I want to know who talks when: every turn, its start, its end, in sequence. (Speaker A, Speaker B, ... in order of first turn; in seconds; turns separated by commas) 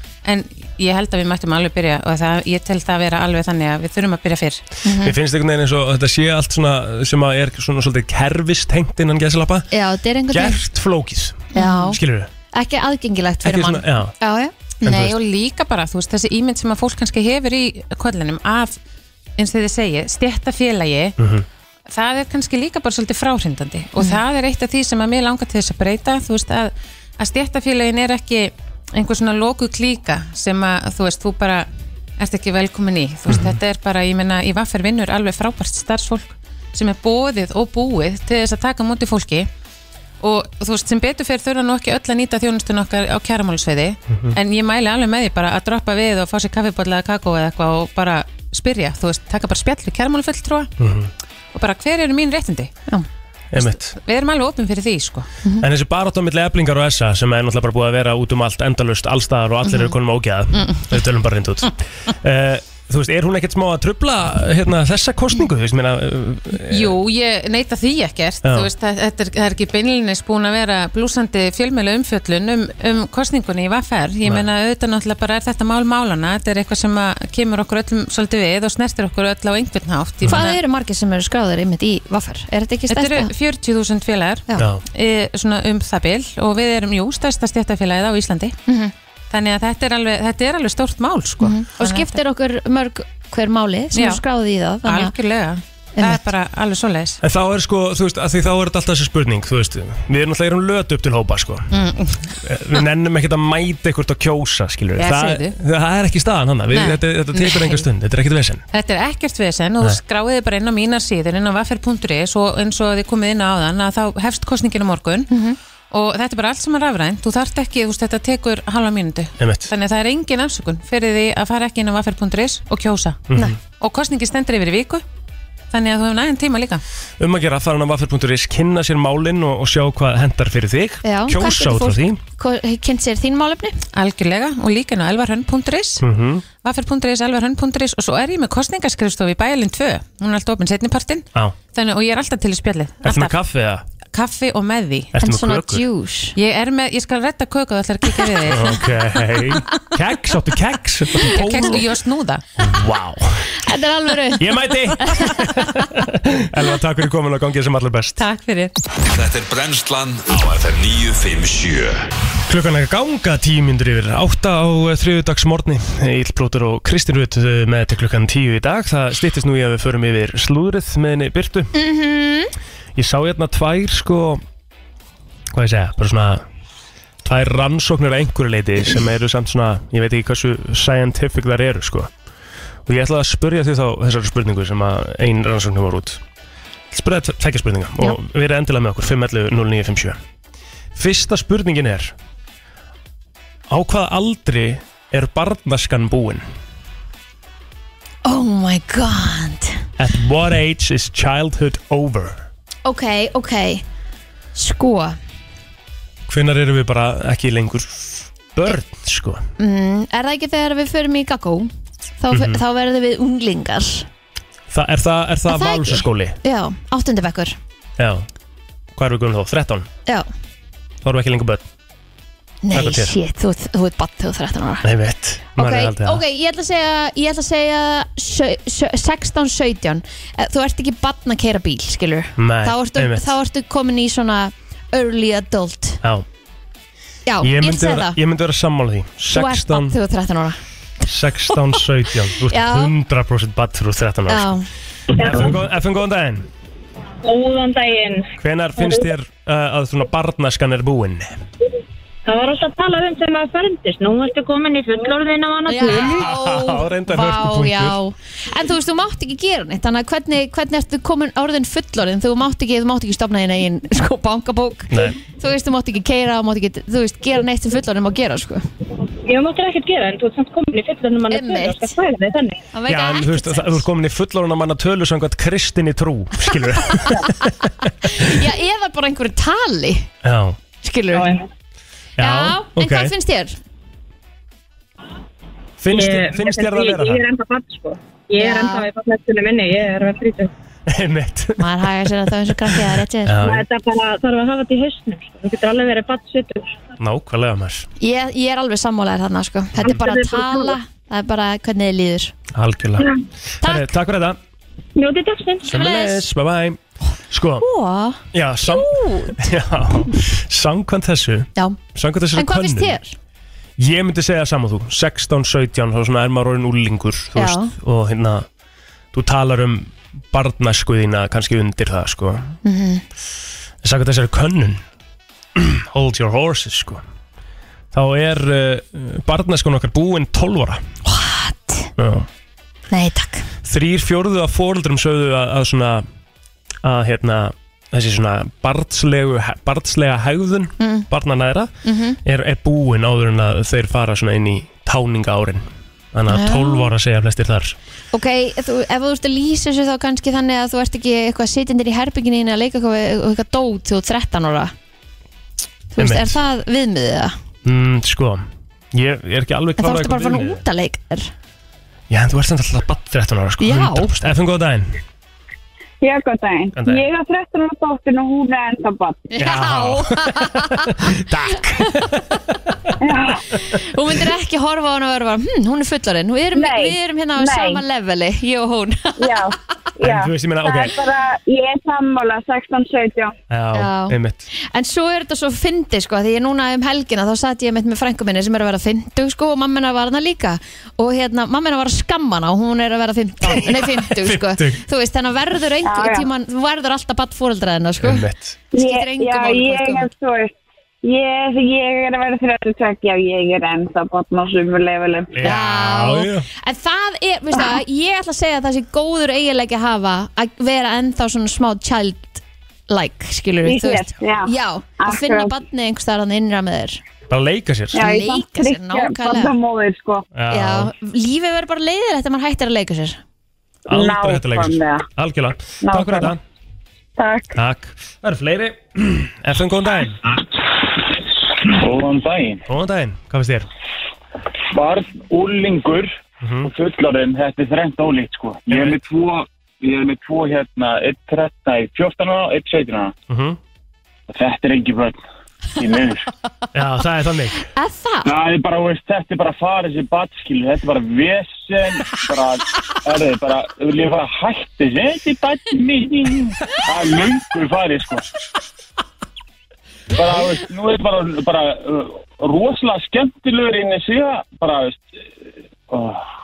Speaker A: 0.2-4.6, Speaker B: 4.8-5.2, Speaker C: 5.0-9.7, Speaker B: 9.7-10.6, Speaker C: 10.3-12.3, Speaker B: 11.5-12.0, Speaker B: 12.5-15.1, Speaker C: 13.4-14.1, Speaker C: 14.8-15.2, Speaker A: 14.8-18.8, Speaker A: 19.4-21.1, Speaker C: 21.2-21.4, Speaker A: 21.9-31.7, Speaker A: 32.2-39.5, Speaker C: 33.3-33.6, Speaker A: 40.2-50.7, Speaker C: 44.1-44.4, Speaker C: 50.8-51.1, Speaker A: 51.5-52.7, Speaker C: 53.5-54.0, Speaker A: 53.5-55.3, Speaker C: 55.6-67.0, Speaker A: 66.6-80.6, Speaker C: 68.4-68.7, Speaker B: 80.2-83.3, Speaker A: 82.9-88.6, Speaker C: 84.6-84.8, Speaker B: 88.7-88.9, Speaker A: 89.3-92.1, Speaker B: 91.4-95.1, Speaker A: 93.9-94.2, Speaker A: 94.8-97.2, Speaker B: 96.0-96.2, Speaker C: 97.2-101.7, Speaker A: 101.7-102.3, Speaker C: 102.3-108.6, Speaker A: 105.0-105.5, Speaker A: 106.7-107.9, Speaker A: 108.7-115.3, Speaker B: 115.3-115.6, Speaker A: 115.9-125.0, Speaker C: 119.4-119.7, Speaker C: 123.3-123.6, Speaker A: 125.7-126.8, Speaker C: 127.2-132.2, Speaker B: 131.0-133.8, Speaker A: 133.9-136.0, Speaker C: 136.0-136.4, Speaker A: 136.6-143.3, Speaker C: 143.0-143.8, Speaker A: 144.1-145.1, Speaker C: 145.1-145.8, Speaker B: 145.2-146.4, Speaker A: 146.3-148.9, Speaker C: 148.4-151.9, Speaker A: 151.2-152.4, Speaker B: 151.2-151.7, Speaker C: 152.6-153.6, Speaker B: 153.6-155.7, Speaker C: 154.3-158.2, Speaker A: 158.2-158.7, Speaker D: 159.0-162.1, Speaker C: 162.4-171.7, Speaker B: 171.7-172.5, Speaker C: 172.9-174.4, Speaker C: 175.5-176.4, Speaker C: 177.2-182.1, Speaker C: 182.8-186.2, Speaker C: 186.9-190.2, Speaker C: 190.9-192.1, Speaker C: 193.7-196.4, Speaker B: 198.2-199.8, Speaker C: 200.0-202.5, Speaker B: 202.8-203.8, Speaker B: 204.5-205.2, Speaker C: 206.3-209.4, Speaker B: 209.6-214.1, Speaker C: 212.3-212.6, Speaker C: 214.7-216.4, Speaker B: 215.5-217.6, Speaker C: 218.0-218.2, Speaker C: 218.9-219.9, Speaker C: 221.0-221.7, Speaker B: 222.6-224.9, Speaker C: 222.7-223.2, Speaker C: 224.8-226.2, Speaker B: 225.6-236.0, Speaker C: 232.4-233.3, Speaker B: 237.2-238.2, Speaker C: 237.4-240.0, Speaker B: 239.3-240.6, Speaker C: 241.0-244.5, Speaker B: 242.4-242.9, Speaker B: 244.3-244.7, Speaker C: 245.2-246.5, Speaker E: 247.2-249.1, Speaker C: 248.4-251.4, Speaker E: 252.2-256.3, Speaker B: 255.7-268.6, Speaker C: 255.8-258.0, Speaker C: 264.9-265.2, Speaker E: 269.2-272.6, Speaker B: 271.3-271.9, Speaker B: 272.7-273.8, Speaker C: 272.9-278.2, Speaker B: 277.0-277.3, Speaker B: 278.0-280.1, Speaker C: 280.2-280.6, Speaker B: 280.8-281.4, Speaker E: 281.1-281.4, Speaker C: 282.2-283.1, Speaker B: 282.2-283.6, Speaker C: 285.8-287.2, Speaker E: 285.9-290.5, Speaker B: 288.4-288.9, Speaker C: 290.9-292.1, Speaker B: 291.6-293.6, Speaker C: 293.2-293.6, Speaker E: 293.4-296.7, Speaker C: 297.0-297.9, Speaker B: 298.0-302.3, Speaker E: 299.9-300.7, Speaker C: 302.5-303.1, Speaker C: 303.6-304.4, Speaker B: 303.6-303.9, Speaker E: 304.9-305.7, Speaker B: 305.6-306.2, Speaker C: 305.7-307.6, Speaker B: 307.6-309.4, Speaker C: 308.3-313.0, Speaker B: 312.3-313.1, Speaker C: 313.8-318.5, Speaker B: 317.4-317.7, Speaker C: 319.1-322.6, Speaker B: 322.6-323.0, Speaker C: 323.8-324.8, Speaker C: 325.6-327.0, Speaker C: 327.9-330.8, Speaker B: 331.0-331.9, Speaker C: 332.0-332.3, Speaker B: 332.9-333.5, Speaker C: 333.6-336.0, Speaker C: 336.8-341.7, Speaker B: 340.8-341.1, Speaker B: 341.8-342.2, Speaker C: 342.2-347.8, Speaker B: 346.3-346.9, Speaker B: 348.1-354.7, Speaker B: 355.9-357.3, Speaker C: 356.0-356.4, Speaker C: 357.6-360.6, Speaker B: 359.8-361.3, Speaker C: 362.1-365.0, Speaker B: 363.6-364.1, Speaker F: 366.0-369.3, Speaker C: 366.8-367.0, Speaker B: 369.3-371.2, Speaker C: 369.4-372.9, Speaker F: 373.0-373.4, Speaker B: 373.7-379.4, Speaker F: 376.5-377.8, Speaker F: 379.2-383.3, Speaker C: 380.0-380.9, Speaker C: 383.5-384.4, Speaker B: 383.7-400.1, Speaker C: 393.4-394.8, Speaker F: 395.8-396.3, Speaker C: 398.0-398.6, Speaker F: 398.7-405.3, Speaker C: 405.3-406.5, Speaker B: 405.4-417.0, Speaker F: 413.6-415.5, Speaker C: 417.3-418.0, Speaker B: 417.9-419.6, Speaker F: 417.9-420.2, Speaker C: 420.3-420.9, Speaker B: 420.5-423.2, Speaker C: 423.9-426.4, Speaker F: 423.9-425.0, Speaker F: 425.8-426.3, Speaker F: 427.2-427.5, Speaker C: 427.5-430.2, Speaker G: 431.6-432.6, Speaker C: 432.7-433.7, Speaker G: 434.7-436.1, Speaker C: 436.4-436.7, Speaker G: 436.6-443.1, Speaker C: 438.7-439.0, Speaker C: 443.3-443.6, Speaker G: 444.3-445.2, Speaker G: 445.8-446.3, Speaker C: 446.7-447.6, Speaker B: 447.7-448.3, Speaker G: 448.2-458.2, Speaker G: 460.1-466.2